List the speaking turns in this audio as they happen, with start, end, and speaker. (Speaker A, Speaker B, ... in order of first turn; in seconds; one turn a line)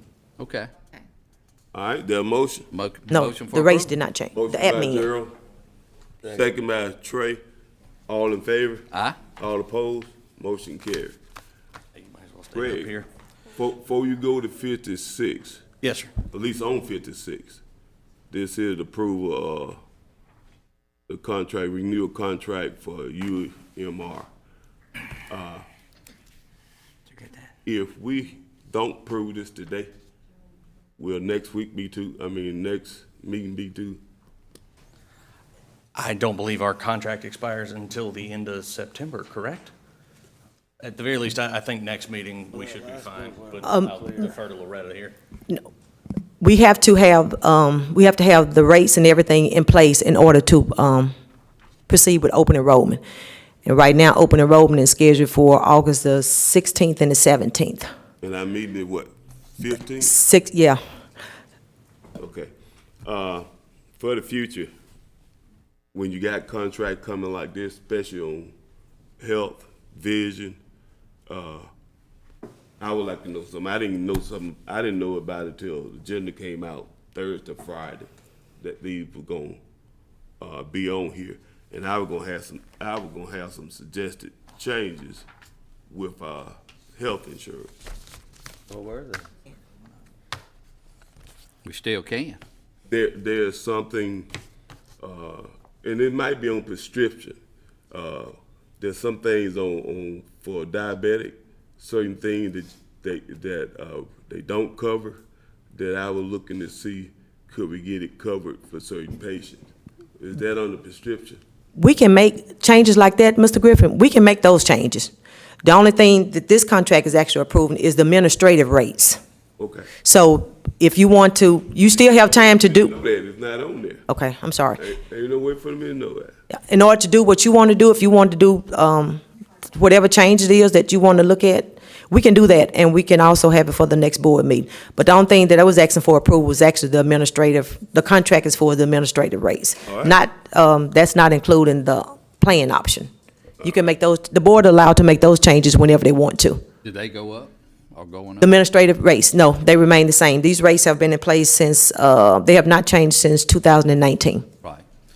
Speaker A: 0.4-0.7
Speaker B: 1.7-2.7
Speaker A: 2.7-3.7
Speaker C: 3.1-5.1
Speaker B: 4.3-5.3
Speaker B: 6.2-7.4
Speaker B: 8.1-11.2
Speaker D: 11.9-13.1
Speaker B: 12.5-12.9
Speaker B: 13.5-15.6
Speaker D: 15.8-16.2
Speaker B: 16.3-17.6
Speaker B: 18.3-19.8
Speaker B: 21.1-24.3
Speaker B: 25.3-25.6
Speaker B: 27.6-29.9
Speaker B: 31.0-34.0
Speaker D: 35.9-39.7
Speaker D: 40.8-45.1
Speaker C: 43.6-44.0
Speaker C: 46.4-51.1
Speaker C: 51.9-53.0
Speaker C: 53.6-57.9
Speaker B: 58.2-60.1
Speaker C: 60.0-60.8
Speaker B: 62.2-62.5
Speaker B: 63.0-63.5
Speaker B: 64.0-64.7
Speaker B: 65.9-68.5
Speaker B: 69.2-70.6
Speaker B: 71.3-71.7
Speaker B: 72.8-78.1
Speaker B: 78.6-79.6
Speaker B: 80.4-85.2
Speaker B: 85.9-87.7
Speaker A: 91.6-92.4
Speaker B: 92.9-94.3
Speaker B: 95.0-97.4
Speaker B: 97.9-105.2
Speaker B: 105.7-111.4
Speaker C: 111.8-115.1
Speaker C: 115.6-119.2
Speaker B: 119.6-119.9
Speaker C: 120.0-122.9
Speaker B: 121.9-124.0
Speaker C: 124.1-124.8
Speaker B: 124.8-126.3
Speaker C: 126.5-143.1
Speaker B: 139.8-140.2
Speaker C: 143.6-146.6
Speaker A: 146.8-148.5
Speaker C: 148.4-154.4